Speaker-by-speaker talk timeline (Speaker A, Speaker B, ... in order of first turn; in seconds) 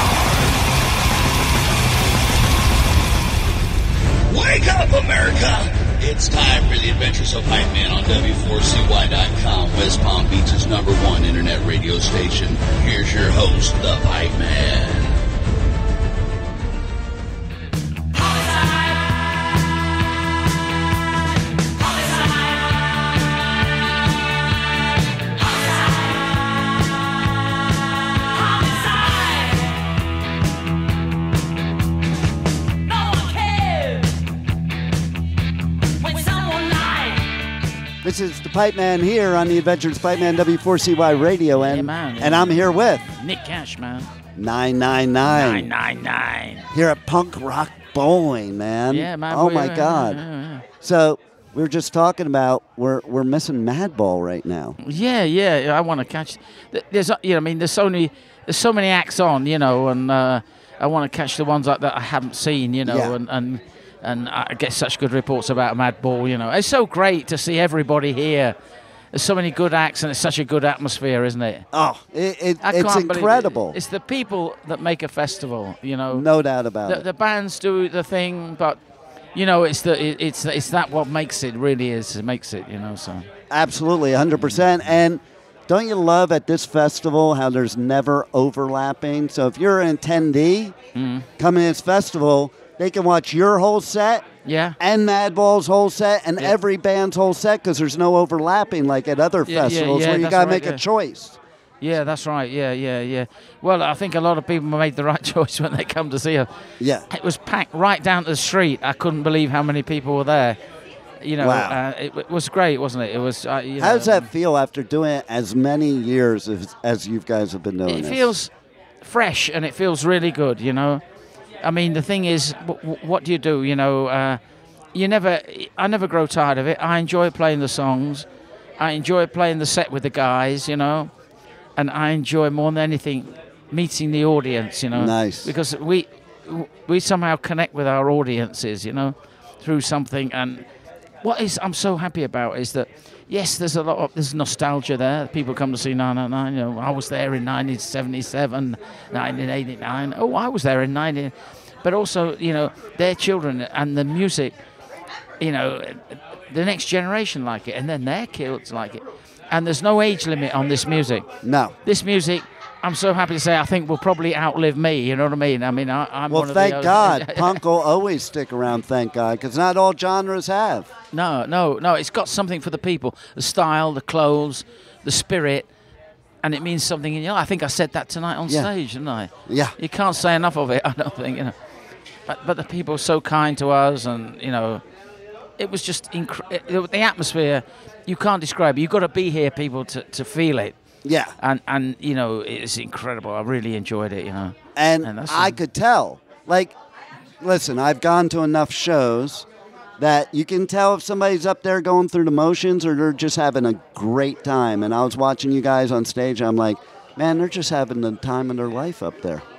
Speaker A: 4.3-15.2
Speaker B: 33.0-34.0, 36.0-37.2, 41.5-44.1, 45.2-46.7, 48.9-50.7, 54.8-68.5, 69.1-71.7, 72.6-76.2, 76.8-78.8, 79.3-83.3, 84.4-85.0, 91.0-91.3, 94.5-94.8, 99.5-100.8, 101.8-106.5, 107.1-110.6, 111.2-114.3, 117.8-121.0, 121.6-124.4, 124.9-128.2, 128.8-131.1, 131.8-140.7, 141.2-154.5, 155.4-161.3, 161.8-167.6, 171.1-175.7, 176.4-181.6, 182.3-184.8, 185.6-190.8, 191.4-195.6
Speaker C: 38.0-43.1, 44.4-45.7, 46.7-50.2, 50.8-54.8, 62.9-63.2, 71.7-73.8, 76.1-77.0, 83.5-90.8, 91.4-94.2, 94.8-101.4, 106.8-107.1, 111.4-111.8, 113.8-118.3, 134.9-135.5, 161.4-161.8, 166.3-170.9, 179.5-179.8, 191.0-191.3, 194.8-196.8, 197.4-199.5, 200.0-209.4